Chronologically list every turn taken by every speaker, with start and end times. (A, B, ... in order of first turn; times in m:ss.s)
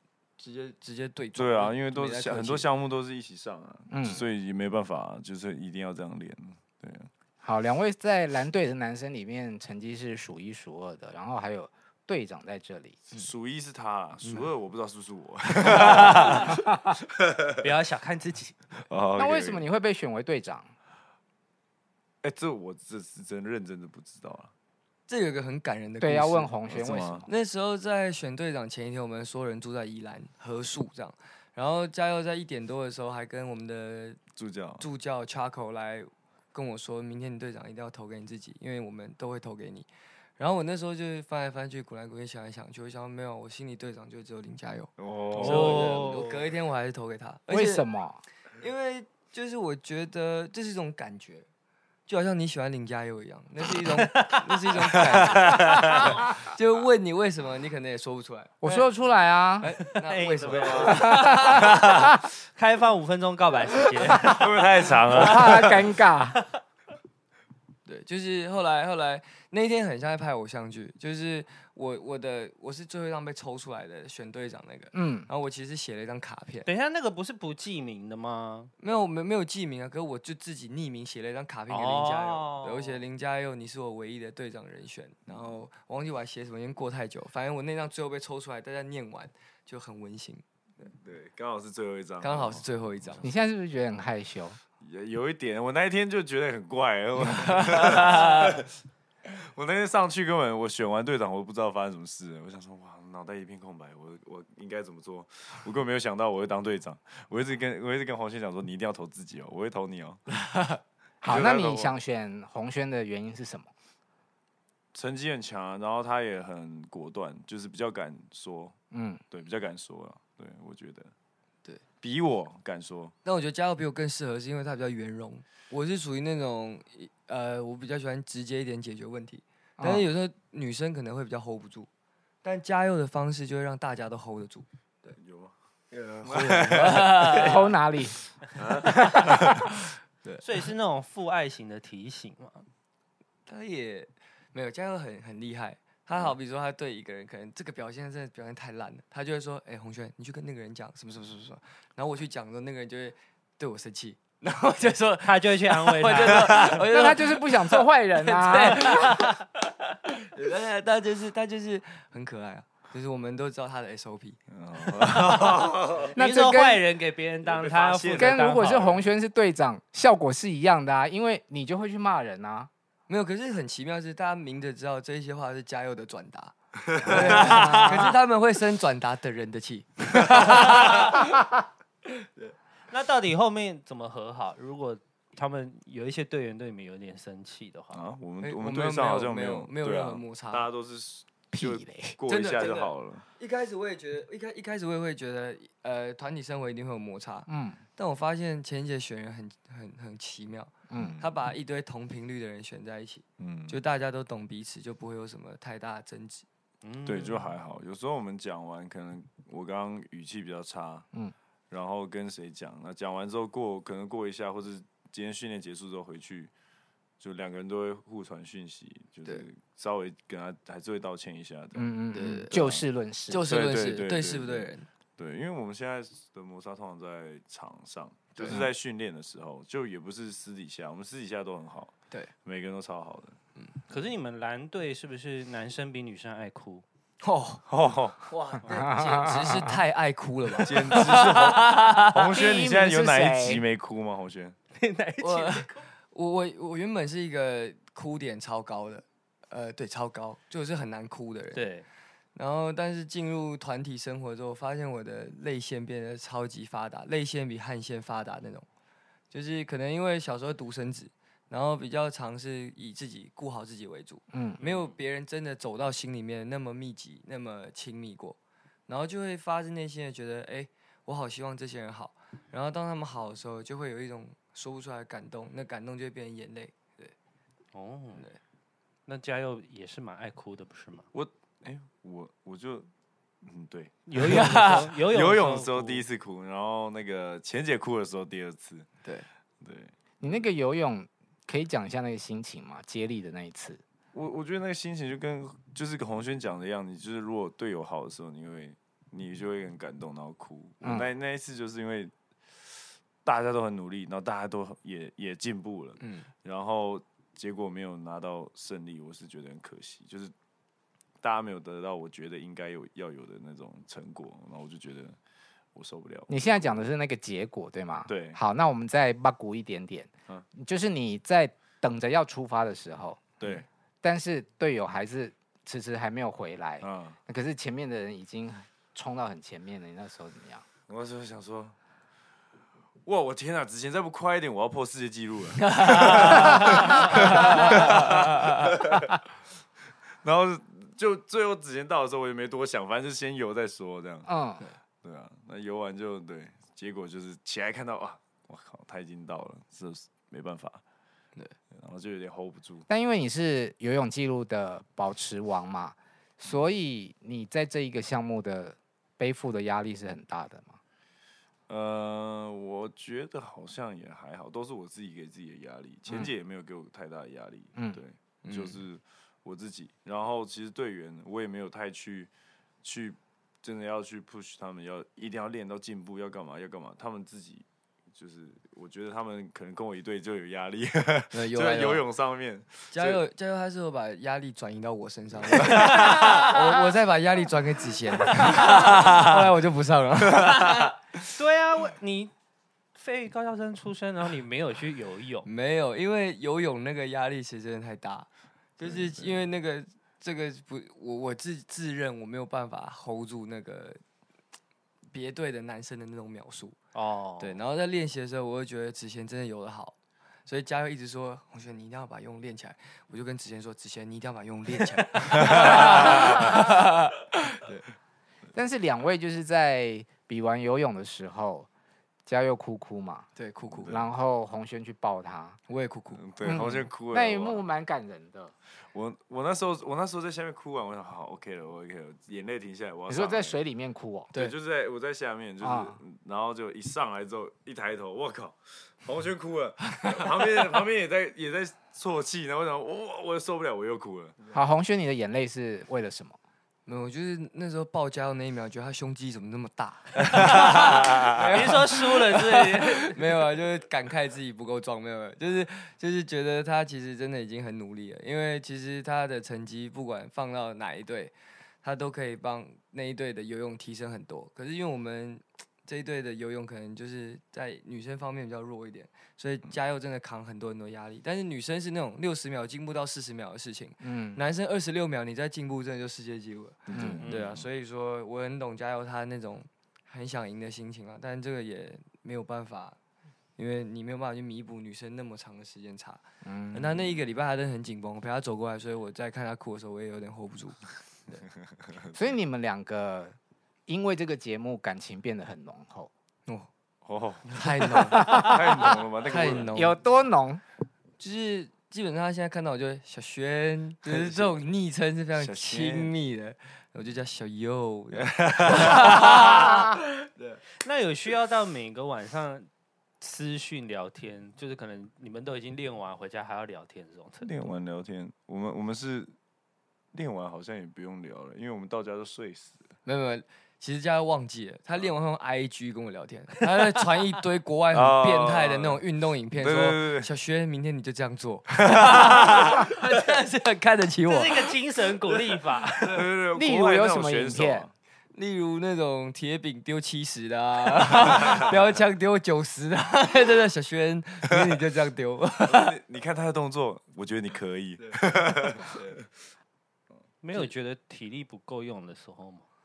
0:00.4-0:02.7 A
0:01.4-0:07.1 B
0:03.9-0:04.2 C
0:07.4-0:13.0 C
0:13.1-0:16.6 B
0:15.9-0:16.3 D
0:17.2-0:17.6 B
0:17.6-0:18.8 D
0:18.9-0:19.7 B
0:19.2-0:20.7 C
0:22.2-0:24.5 B
0:25.1-0:34.2 A
0:26.0-0:27.3 C
0:26.7-0:27.2 B
0:34.4-0:34.9 B
0:34.8-0:39.9 A
0:40.4-0:47.8 A
0:45.0-0:46.4 B
0:45.4-0:46.3 D
0:47.5-0:48.2 C
0:48.5-0:51.5 A
0:52.1-0:58.9 A
0:53.9-0:54.6 D
0:55.0-0:56.3 B
0:58.6-0:59.7 C
0:59.6-1:01.6 A
0:59.9-1:05.8 D
1:00.4-1:01.6 B
1:00.9-1:02.1 C
1:04.2-1:05.8 B
1:05.1-1:06.4 C
1:07.9-1:16.7 A
1:14.9-1:15.3 C
1:16.7-1:18.7 D
1:18.8-1:30.9 A
1:21.7-1:23.0 D
1:30.9-1:33.3 B
1:32.2-1:33.2 A
1:33.2-1:34.6 C
1:34.8-1:38.7 B
1:37.2-1:38.6 A
1:39.2-1:50.2 B
1:50.5-1:50.8 A
1:51.2-1:53.7 C
1:51.3-1:51.9 B
1:54.9-1:58.8 B
1:58.9-1:59.2 C
1:59.3-2:01.1 B
2:02.0-2:03.2 B
2:03.2-2:11.9 A
2:09.8-2:10.1 C
2:12.4-2:15.2 A
2:15.1-2:15.5 B
2:15.9-2:17.8 A
2:16.2-2:17.6 B
2:17.2-2:18.2 C
2:18.5-2:19.7 B
2:20.4-2:22.7 D
2:23.5-2:45.7 A
2:35.2-2:36.9 D
2:36.9-2:38.8 C
2:38.8-2:39.4 D
2:44.5-2:46.2 B
2:46.2-2:46.8 C
2:46.2-2:48.9 D
2:47.4-2:49.0 B
2:48.1-2:52.7 C
2:53.1-3:01.5 A
2:56.9-2:58.1 B
2:57.3-2:58.0 D
3:02.2-3:02.5 A
3:02.9-3:08.0 D
3:07.9-3:13.2 B
3:08.4-3:10.7 A
3:11.5-3:12.2 C
3:12.3-3:26.5 A
3:17.5-3:17.8 C
3:20.9-3:21.2 C
3:21.0-3:21.3 B
3:23.4-3:23.8 B
3:26.8-3:27.6 D
3:27.1-3:31.1 B
3:31.7-3:36.5 B
3:37.2-3:41.9 B
3:41.8-3:43.5 C
3:42.1-3:44.9 A
3:42.5-3:42.8 B
3:43.4-3:53.4 B
3:48.4-3:48.7 A
3:53.9-3:56.8 D
3:57.2-3:57.6 A
3:57.7-3:58.3 B
3:58.3-4:02.3 A
3:58.7-3:59.8 C
4:00.6-4:04.6 B
4:02.3-4:03.6 C
4:04.8-4:05.7 D
4:05.2-4:11.7 A
4:11.5-4:11.9 D
4:12.4-4:18.7 A
4:19.3-4:28.4 A
4:24.3-4:24.6 C
4:24.6-4:24.9 D
4:28.9-4:37.2 A
4:37.7-4:38.3 D
4:39.1-4:41.1 D
4:41.1-4:42.9 B
4:43.4-4:48.9 B
4:44.1-4:46.0 D
4:44.2-4:44.9 A
4:49.6-4:50.3 B
4:50.2-4:53.8 C
4:54.1-5:10.3 B
5:00.8-5:01.1 C
5:06.0-5:06.3 A
5:11.2-5:15.2 B
5:15.7-5:16.8 B
5:16.3-5:23.3 C
5:18.1-5:18.4 B
5:23.4-5:23.7 B
5:24.0-5:30.6 C
5:26.8-5:27.2 B
5:30.9-5:31.8 B
5:33.0-5:39.2 B
5:35.6-5:38.7 A
5:40.2-5:44.3 B
5:44.3-5:44.6 C
5:45.0-5:50.8 B
5:51.7-5:52.9 B
5:52.9-6:00.8 C
6:01.7-6:12.3 B
6:08.4-6:08.8 A
6:12.8-6:23.2 B
6:21.3-6:22.0 A
6:22.9-6:31.0 A
6:25.4-6:26.3 B
6:25.8-6:26.7 D
6:31.2-6:32.3 D
6:33.0-6:35.5 D
6:35.4-6:44.0 A
6:38.8-6:39.3 B
6:45.1-6:46.8 A
6:47.0-6:47.6 D
6:47.4-6:57.8 A
6:55.4-6:56.5 B
6:58.5-7:01.7 C
7:02.3-7:03.3 C
7:03.4-7:04.0 A
7:03.7-7:04.0 B
7:03.9-7:05.6 C
7:05.7-7:06.2 A
7:06.1-7:07.6 B
7:06.4-7:08.5 C
7:08.9-7:13.6 B
7:13.1-7:14.3 C
7:14.3-7:24.4 B
7:15.6-7:16.0 C
7:24.5-7:26.4 C
7:26.9-8:03.0 A
7:30.4-7:31.3 B
7:30.4-7:33.2 D
7:54.0-7:54.4 C
7:56.9-7:57.7 B
7:56.9-7:57.2 C
7:57.2-7:57.5 D
8:03.6-8:06.2 A
8:06.4-8:07.0 C
8:06.7-8:11.4 A
8:12.1-8:13.4 C
8:13.9-8:16.1 C
8:17.0-8:20.0 B
8:17.5-8:20.0 A
8:18.2-8:18.6 C
8:19.7-8:20.6 C
8:21.2-8:30.6 A
8:24.0-8:24.6 B
8:25.3-8:26.2 B
8:28.1-8:29.5 B
8:29.0-8:29.7 D
8:30.8-8:32.7 D
8:33.2-8:37.5 D
8:37.4-8:39.3 B
8:40.1-8:42.9 B
8:43.0-8:54.8 A
8:47.9-8:50.3 B
8:51.8-8:53.0 B
8:54.2-8:56.2 D
8:56.1-8:57.9 B
8:56.5-8:57.9 C
8:58.3-9:06.0 A
9:05.6-9:09.2 B
9:08.9-9:09.2 A
9:10.4-9:12.6 D